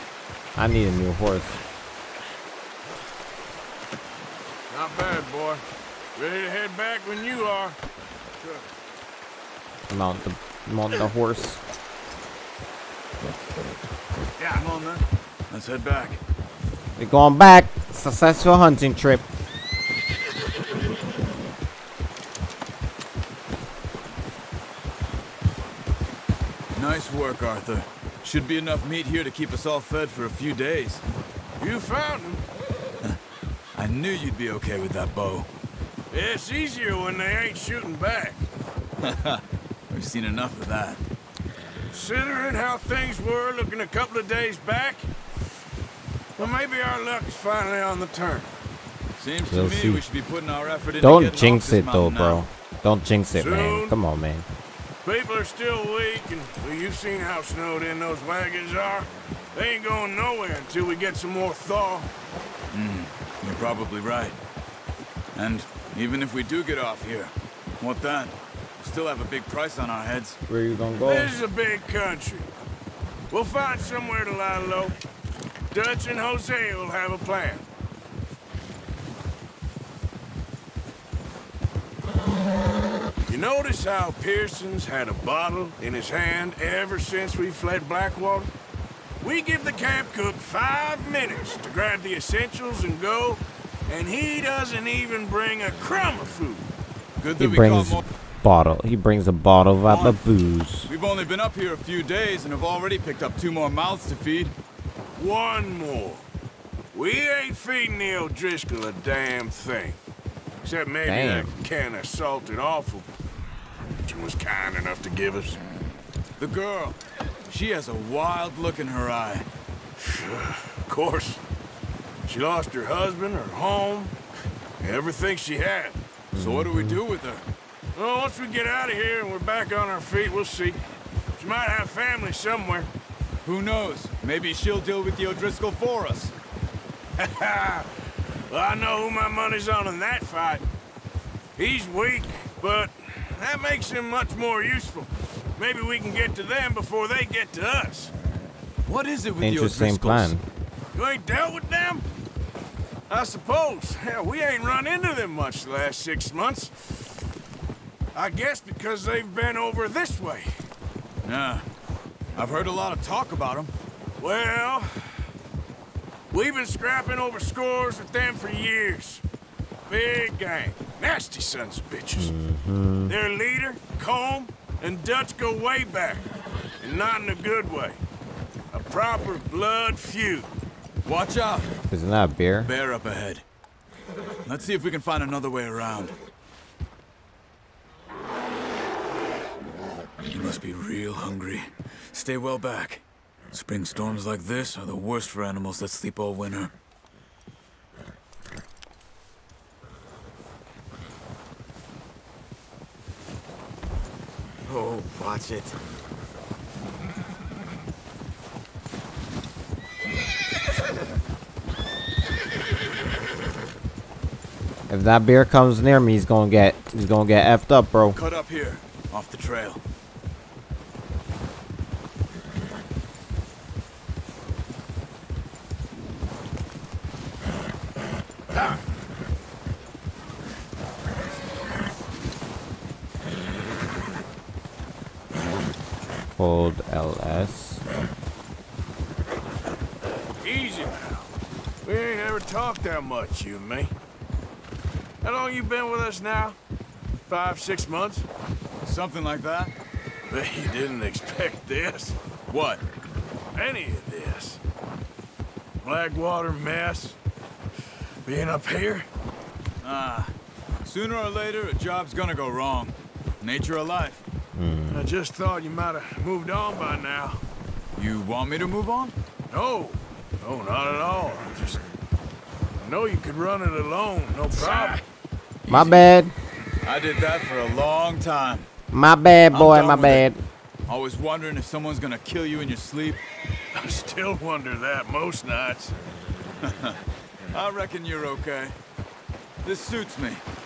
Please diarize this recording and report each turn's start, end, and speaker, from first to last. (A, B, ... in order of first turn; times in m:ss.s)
0:00.6-0:01.6 A
0:04.7-0:05.6 B
0:06.2-0:07.8 B
0:09.9-0:11.6 A
0:14.4-0:16.2 C
0:17.0-0:19.2 A
0:26.7-0:31.0 C
0:31.6-0:32.4 B
0:33.7-0:35.5 C
0:36.1-0:38.4 B
0:39.0-0:41.0 C
0:41.9-0:45.1 B
0:46.4-0:48.5 B
0:49.2-0:52.5 C
0:49.5-0:50.0 A
0:51.0-0:54.4 A
0:53.4-0:53.9 B
0:55.0-1:02.1 B
1:02.7-1:04.4 C
1:05.3-1:10.4 C
1:10.5-1:11.4 A
1:11.0-1:12.5 B
1:13.3-1:15.0 B
1:15.7-1:17.6 B
1:23.2-1:28.5 B
1:29.2-1:36.6 B
1:37.2-1:38.0 C
1:37.4-1:40.9 A
1:39.8-1:40.2 C
1:40.8-1:44.5 C
1:45.2-1:46.2 B
1:46.9-1:50.0 B
1:50.6-1:53.1 B
1:51.0-1:51.5 A
1:54.0-1:55.6 B
1:56.4-1:59.5 C
2:00.0-2:01.4 B
2:02.3-2:04.1 B
2:04.8-2:06.0 B
2:06.3-2:07.4 C
2:06.3-2:07.0 A
2:08.0-2:10.8 B
2:11.4-2:12.9 B
2:13.4-2:16.3 C
2:17.2-2:17.9 B
2:18.5-2:20.6 B
2:21.6-2:28.1 B
2:28.8-2:30.4 C
2:29.4-2:30.4 A
2:30.9-2:32.0 B
2:33.1-2:37.1 B
2:38.1-2:40.6 B
2:41.2-2:41.7 C
2:42.3-2:43.7 C
2:44.2-2:45.2 B
2:46.3-2:49.2 B
2:49.9-2:52.3 B
2:52.2-2:53.1 A
2:53.1-2:56.2 B
2:56.8-2:58.0 B
2:58.7-3:00.5 B
3:01.0-3:01.7 C
3:01.9-3:02.7 A
3:02.6-3:03.4 C
3:04.4-3:06.2 C
3:10.3-3:16.7 C
3:24.6-3:25.8 C
3:34.9-3:38.2 A
3:38.1-3:39.8 C
3:56.4-3:57.8 A
4:00.4-4:01.3 B
4:01.8-4:03.9 B
4:05.2-4:06.6 B
4:07.3-4:08.2 B
4:08.8-4:09.7 C
4:10.3-4:12.2 B
4:12.5-4:12.8 C
4:13.6-4:14.6 B
4:15.8-4:17.2 B
4:18.2-4:19.1 B
4:19.8-4:24.2 C
4:24.5-4:25.1 A
4:24.9-4:27.4 B
4:27.9-4:29.2 C
4:29.5-4:31.8 B
4:32.8-4:35.0 B
4:35.7-4:36.3 A
4:35.7-4:36.0 C
4:36.8-4:38.7 C
4:38.9-4:40.4 A
4:39.5-4:40.3 C
4:40.9-4:43.2 C
4:43.7-4:45.9 B
4:46.6-4:47.0 C
4:47.5-4:48.8 C
4:49.6-4:50.4 C